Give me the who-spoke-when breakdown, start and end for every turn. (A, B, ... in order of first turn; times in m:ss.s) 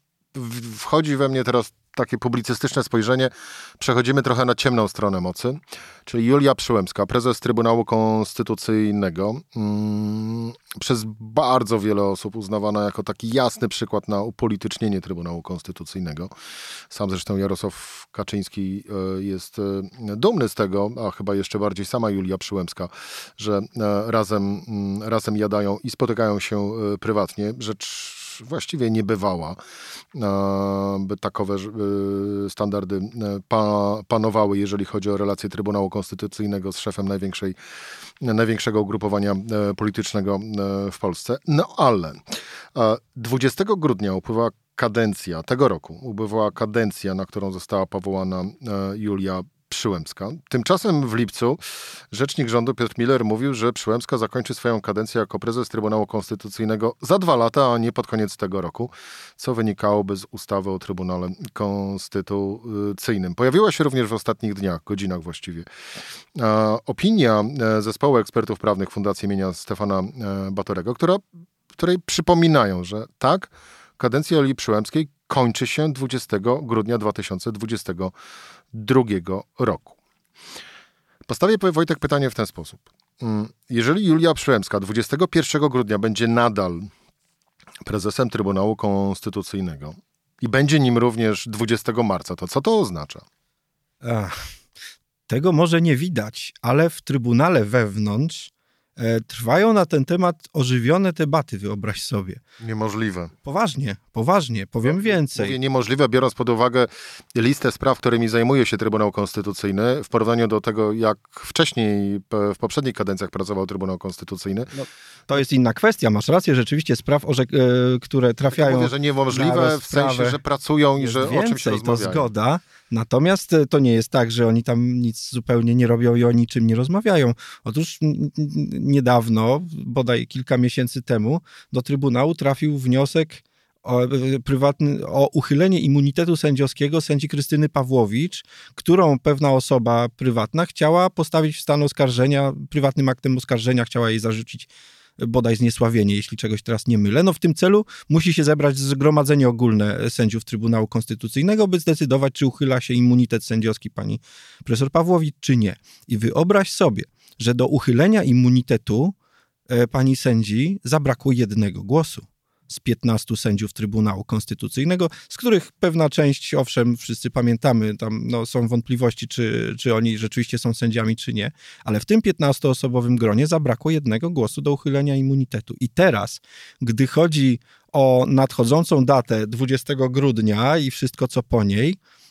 0:00.3-0:16.3 A
0:16.9-0:29.6 A
0:30.1-0:37.6 A
0:38.2-0:42.2 A
0:42.7-0:51.6 A
0:52.1-1:05.7 A
1:06.3-1:11.2 A
1:11.7-1:18.1 A
1:18.7-1:20.0 A
1:21.3-1:26.9 A
1:27.8-1:33.2 A
1:34.0-1:34.3 B
1:35.3-1:42.4 B
1:42.6-1:43.3 A
1:43.4-1:45.6 B
1:44.8-1:54.7 A
1:54.7-2:00.4 B
1:58.5-2:02.3 A
2:01.0-2:39.1 B
2:39.7-3:02.0 B